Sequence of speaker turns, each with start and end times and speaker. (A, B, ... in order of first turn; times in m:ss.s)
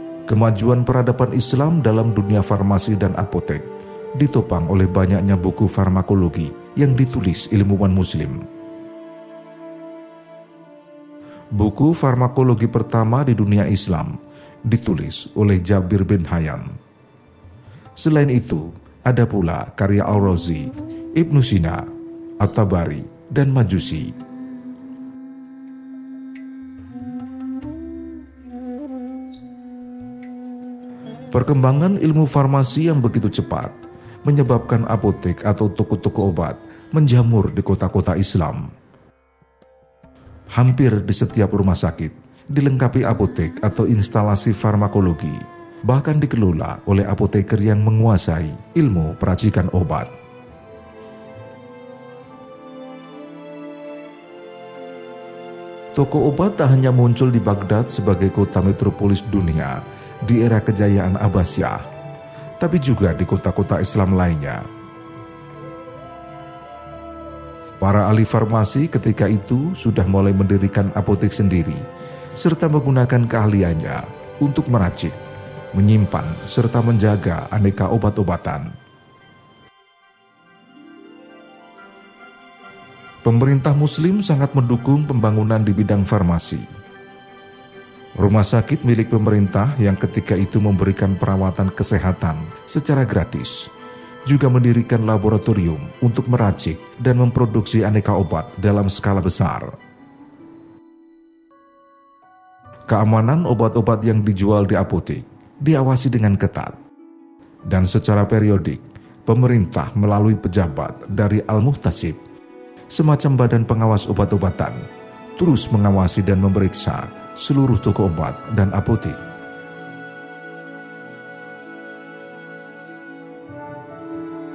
0:00.3-0:03.6 A
0:04.2-0:08.4 A
0:11.6-0:14.1 A
0:14.7-0:16.7 A
0:18.0-0:21.8 A
0:22.4-0:24.1 A
0:31.3-0:33.7 A
0:34.2-0:38.7 A
0:40.5-0:50.1 A
0:56.0-1:01.8 A
1:02.6-1:04.6 A
1:07.8-1:11.8 A
1:12.4-1:15.2 A
1:15.7-1:18.7 A
1:23.2-1:26.6 A
1:28.2-1:33.7 A
1:34.3-1:39.7 A
1:42.9-1:46.8 A
1:47.7-1:52.2 A
1:52.9-1:54.8 A
1:55.4-1:59.2 A